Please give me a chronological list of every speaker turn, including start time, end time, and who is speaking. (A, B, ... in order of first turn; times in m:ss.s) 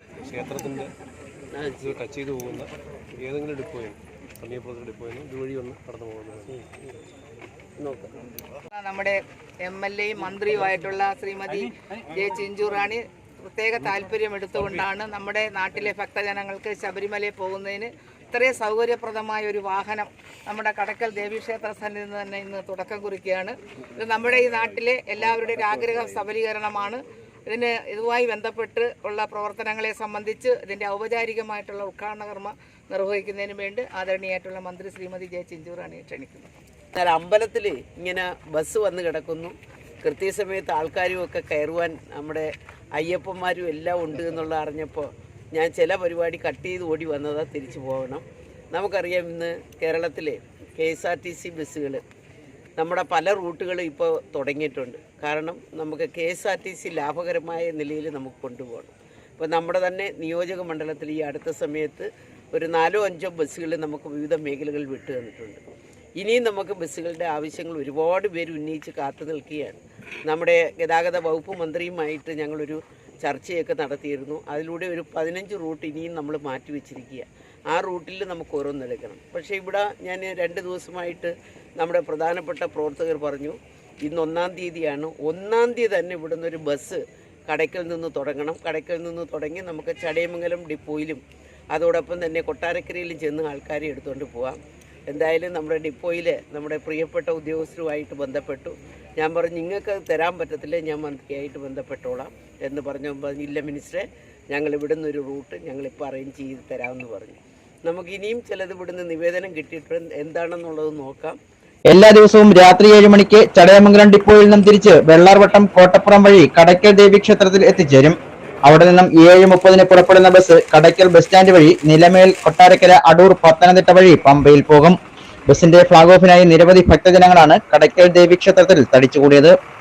0:00.2-0:00.9 A
0:01.5-0:01.9 B
0:01.8-0:02.7 A
0:03.2-0:06.9 A
0:07.8-0:08.1 B
0:08.7-0:36.5 C
0:36.9-0:52.0 B
0:52.8-1:05.6 B
1:06.2-1:31.2 B
1:31.7-1:51.4 B
1:51.9-2:05.0 D
2:05.5-2:09.5 D